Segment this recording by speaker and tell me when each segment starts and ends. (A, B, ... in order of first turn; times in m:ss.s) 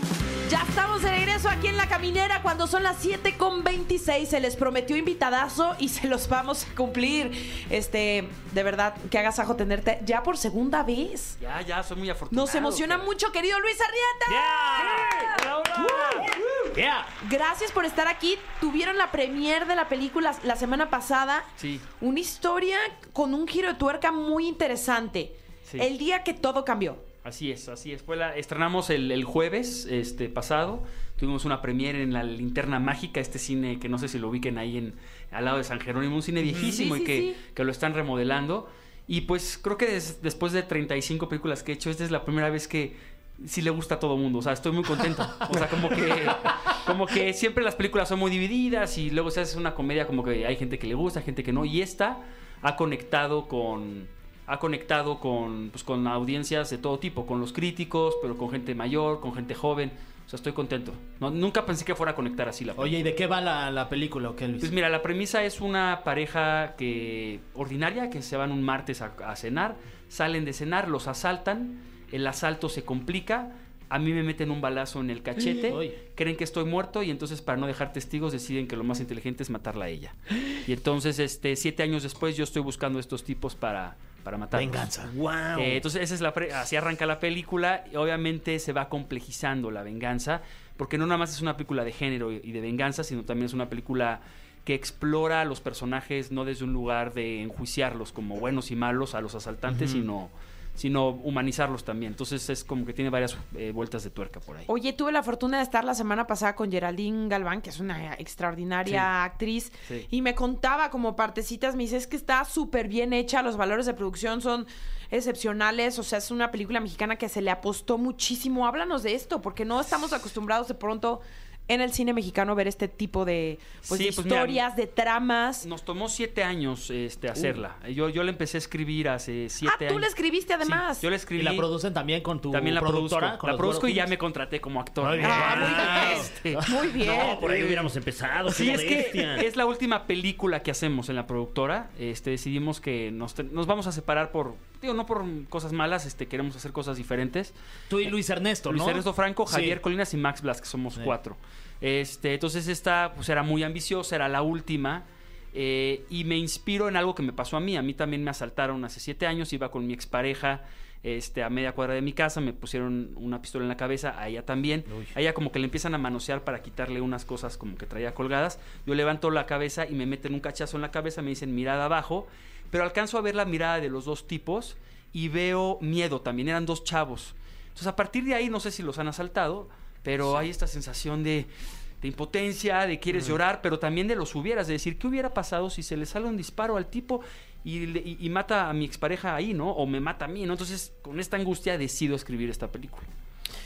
0:00.4-0:11.4 A
0:11.4-0:13.1 B
0:12.3-0:16.4 A
0:14.3-0:17.1 C
0:15.3-0:15.8 B
0:17.2-0:21.5 A
0:21.6-0:21.8 B
0:22.0-0:27.0 A
0:27.2-1:03.0 B
0:36.4-0:37.4 A
1:02.8-1:04.7 C
1:04.6-1:24.9 B
1:15.5-1:16.0 C
1:24.5-1:25.1 C
1:25.0-1:25.8 D
1:25.5-1:44.7 B
1:39.7-1:40.0 C
1:44.7-2:05.7 A
2:03.9-2:04.6 B
2:05.6-2:10.1 B
2:09.6-2:11.0 A
2:10.6-2:11.7 B
2:11.4-2:14.1 C
2:12.5-2:16.6 B
2:15.0-2:16.7 C
2:15.2-2:17.4 A
2:15.4-2:16.1 D
2:17.0-2:19.5 D
2:18.5-2:27.5 B
2:27.9-2:29.8 C
2:28.6-3:01.5 B
3:02.0-3:13.1 B